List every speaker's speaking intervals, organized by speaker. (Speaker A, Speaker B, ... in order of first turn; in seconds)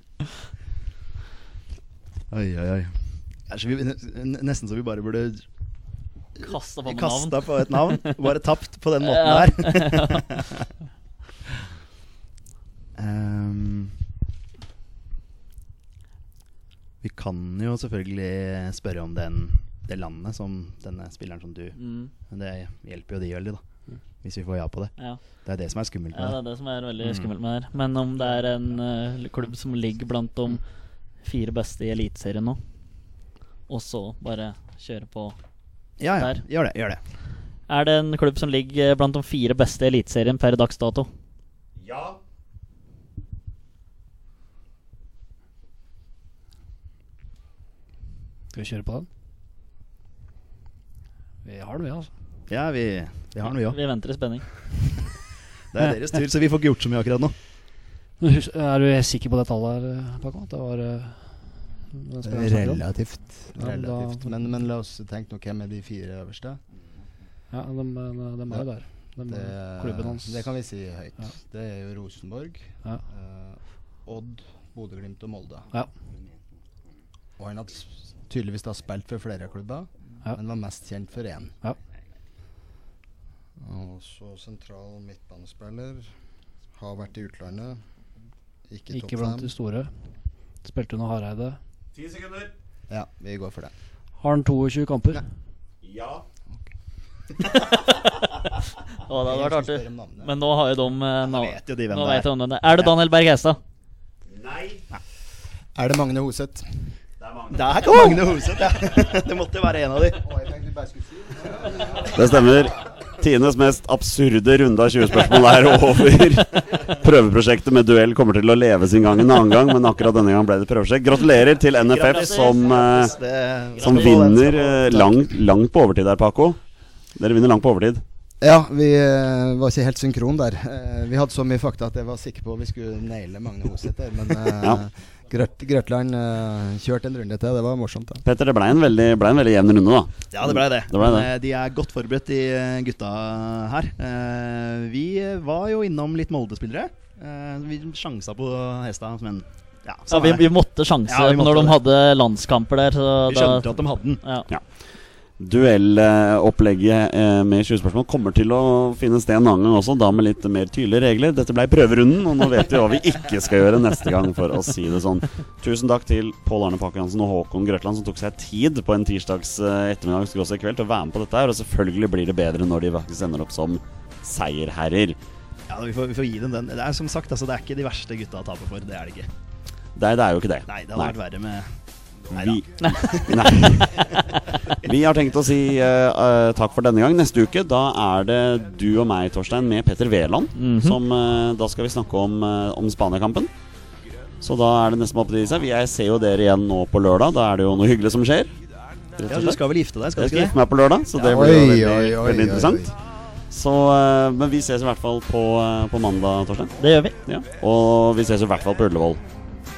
Speaker A: 2.3-5.4, 6.4-10.7, 12.9-13.9, 17.0-23.6, 24.2-26.4, 27.0-27.3, 36.0-37.0, 52.5-53.8, 55.7-57.3, 101.2-102.9, 107.5-110.2, 121.8-125.2, 140.3-150.5, 151.1-151.8, 153.2-154.2, 175.7-179.3, 180.7-184.3, 199.3-200.6
Speaker B: 6.4-8.2, 9.0-10.2, 21.8-22.1, 25.0-25.2, 26.1-32.6, 33.7-35.4, 37.7-41.1, 53.5-54.5, 97.5-103.6, 122.1-122.6, 150.1-154.5, 182.8-183.3, 190.6-191.0, 206.8-207.2
Speaker C: 41.8-42.2, 91.9-92.5, 95.8-96.2, 104.3-104.8, 107.2-108.0, 112.1-123.1, 123.8-126.6, 127.1-128.0, 138.2-141.3, 155.4-175.2, 179.9-181.2, 182.3-184.1, 184.8-193.5, 194.4-198.5, 199.2-199.6, 200.2-202.9, 203.5-209.2
Speaker D: 48.5-49.1, 51.4-52.1, 58.2-62.9, 63.5-64.4, 67.5-70.5, 88.9-89.9, 90.6-91.6, 94.2-95.2
Speaker E: 62.2-66.6, 69.3-75.7, 77.4-81.5, 83.6-86.1, 86.7-87.8, 88.7-89.5, 92.9-93.7, 99.1-100.3, 105.7-106.7, 110.2-112.1, 128.4-138.2, 201.2-202.9